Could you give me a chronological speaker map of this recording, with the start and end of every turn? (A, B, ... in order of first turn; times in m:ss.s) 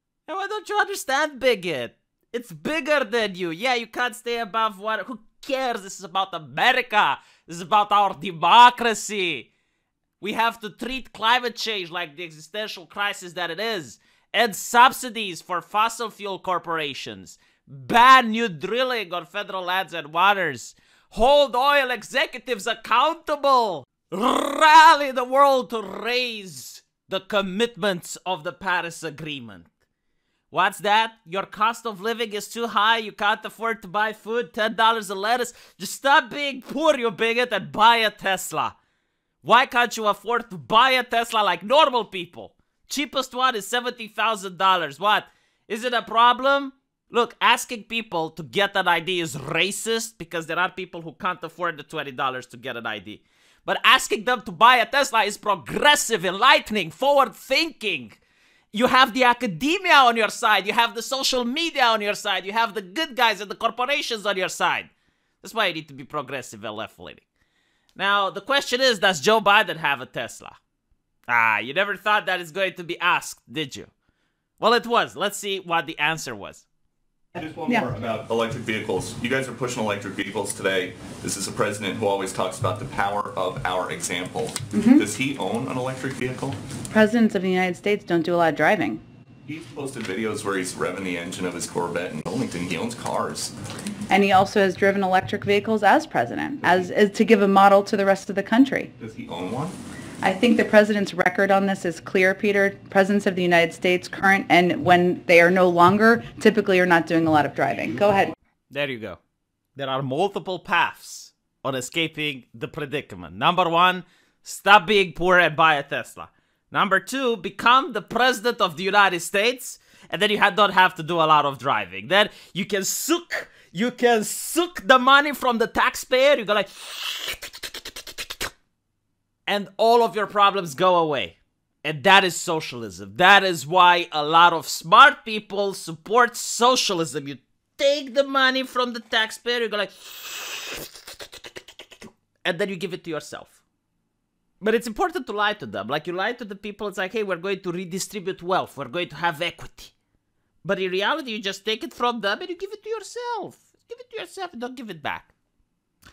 0:00.3-0:09.5 A
0:10.2-0:29.7 A
0:30.5-0:38.8 A
0:39.4-0:58.2 A
0:58.7-1:04.9 A
1:05.4-1:07.2 A
1:08.0-1:10.6 A
1:11.3-1:13.9 A
1:14.6-1:16.6 A
1:17.4-1:26.6 B
1:24.7-1:25.0 C
1:26.9-1:29.0 C
1:29.5-1:33.5 B
1:34.1-1:38.9 C
1:39.0-1:39.8 B
1:40.2-1:48.3 C
1:48.7-1:49.2 A
1:49.8-2:07.9 A
2:09.5-2:20.9 A
2:22.4-2:23.6 A
2:24.6-2:29.9 A
2:30.6-2:35.3 A